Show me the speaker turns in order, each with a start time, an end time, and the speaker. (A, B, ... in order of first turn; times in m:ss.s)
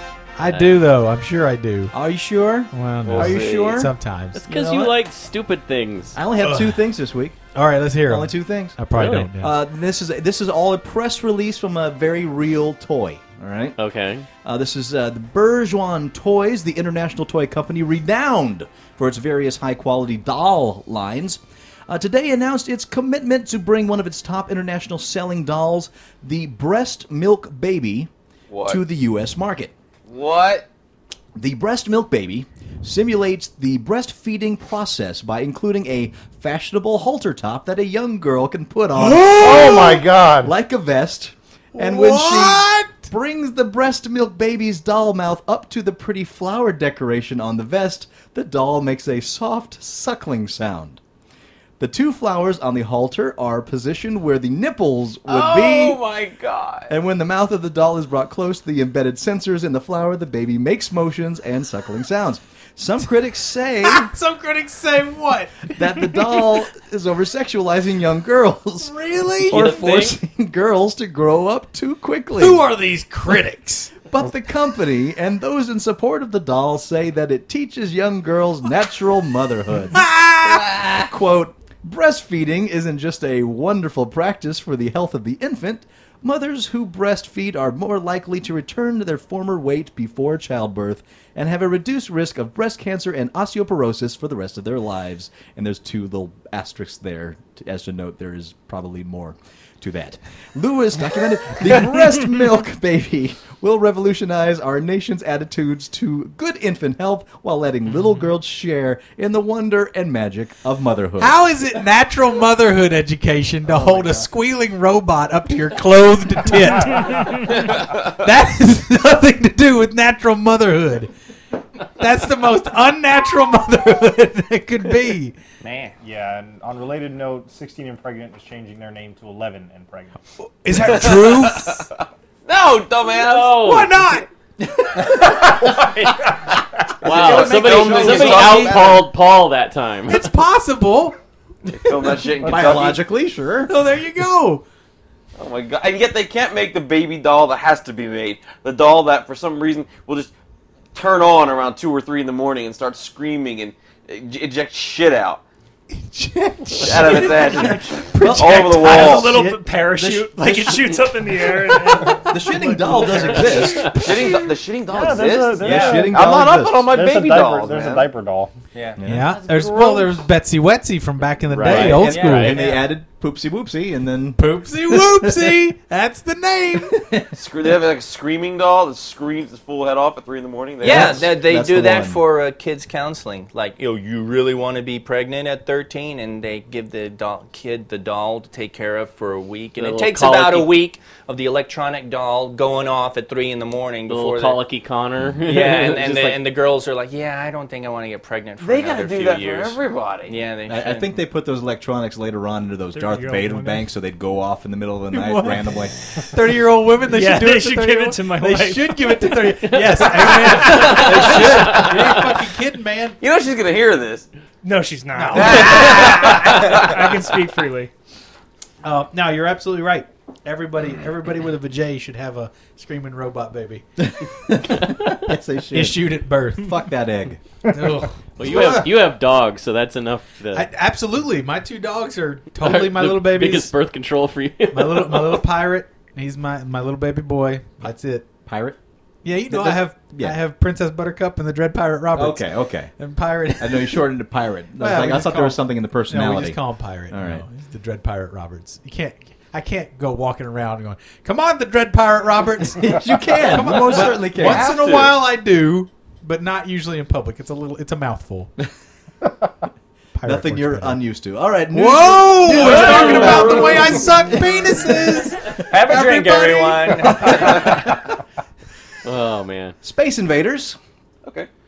0:00.4-0:01.9 A
0:00.5-0:00.8 B
0:01.9-0:03.9 C
0:02.7-0:04.4 A
0:03.0-0:03.9 D
0:04.3-0:06.2 B
0:04.5-0:05.0 C
0:06.1-0:07.4 C
0:06.4-0:06.8 A
0:07.5-0:09.5 A
0:08.0-0:13.8 C
0:08.9-0:09.3 B
0:13.8-0:14.2 B
0:14.4-0:28.1 C
0:28.5-0:28.8 D
0:28.7-0:29.7 C
0:30.1-0:30.7 D
0:31.3-0:51.0 C
0:39.0-0:40.5 E
0:39.5-0:39.9 A
0:41.7-0:43.1 A
0:51.8-0:56.0 C
0:55.2-0:56.9 D
0:56.9-1:04.1 C
1:03.8-1:06.5 A
1:05.7-1:08.9 C
1:08.8-1:09.8 A
1:09.4-1:10.2 B
1:09.5-1:12.6 C
1:12.4-1:13.9 A
1:14.1-1:51.4 C
1:19.9-1:21.1 A
1:51.2-2:01.1 A
2:02.0-2:05.4 A
2:05.6-2:05.9 F
2:06.0-2:10.2 E
2:10.6-2:11.8 A
2:10.7-2:11.9 D
2:12.4-2:13.7 D
2:13.1-2:14.0 B
2:13.5-2:14.3 A
2:17.0-2:19.1 D
2:17.0-2:20.4 B
2:17.0-2:19.0 A
2:20.1-2:21.2 A
2:21.7-2:23.0 D
2:22.4-2:23.7 C
2:22.4-2:22.8 E
2:23.7-2:24.6 A
2:25.4-2:30.3 D
2:30.9-2:35.4 D
2:35.9-2:44.4 A
2:36.7-2:39.3 D
2:37.2-2:39.0 C
2:38.6-2:42.5 G
2:42.3-2:44.1 C
2:43.0-2:48.1 D
2:44.9-2:48.5 E
2:45.6-2:47.0 C
2:48.7-2:49.0 F
2:49.0-2:49.3 C
2:49.0-2:52.7 A
2:49.3-2:50.1 D
2:51.5-2:51.9 E
2:51.6-2:52.0 D
2:51.6-2:55.7 C
2:51.8-2:52.9 F
2:54.4-2:57.0 A
2:56.9-2:57.3 C
2:57.3-3:01.3 D
3:00.8-3:14.6 F
3:00.8-3:02.2 C
3:09.8-3:10.8 B
3:14.1-3:16.4 B
3:15.4-3:21.1 F
3:18.6-3:20.4 D
3:20.7-3:25.9 C
3:22.9-3:23.8 G
3:25.1-3:33.2 A
3:27.1-3:29.2 G
3:29.2-3:32.3 B
3:31.1-3:31.4 D
3:33.2-3:34.3 D
3:34.6-3:37.9 G
3:35.1-3:36.8 A
3:35.3-3:36.9 D
3:38.8-3:44.0 A
3:44.0-3:47.4 C
3:45.7-3:46.8 A
3:47.7-3:49.1 A
3:48.4-3:50.7 B
3:50.5-3:53.7 A
3:52.6-3:55.4 B
3:54.7-3:58.3 A
3:58.4-3:58.8 C
3:59.2-4:02.5 A
3:59.5-4:00.4 C
4:02.1-4:02.9 C
4:03.0-4:04.0 A
4:03.6-4:07.4 C
4:04.8-4:18.5 A
4:12.6-4:14.9 C
4:13.8-4:15.2 D
4:20.1-4:21.0 A
4:20.2-4:25.2 C
4:21.7-4:27.9 A
4:22.6-4:23.5 B
4:22.6-4:24.2 D
4:25.7-4:27.5 F
4:27.3-4:27.9 D
4:29.0-4:29.8 B
4:29.8-4:30.8 C
4:31.2-4:31.5 D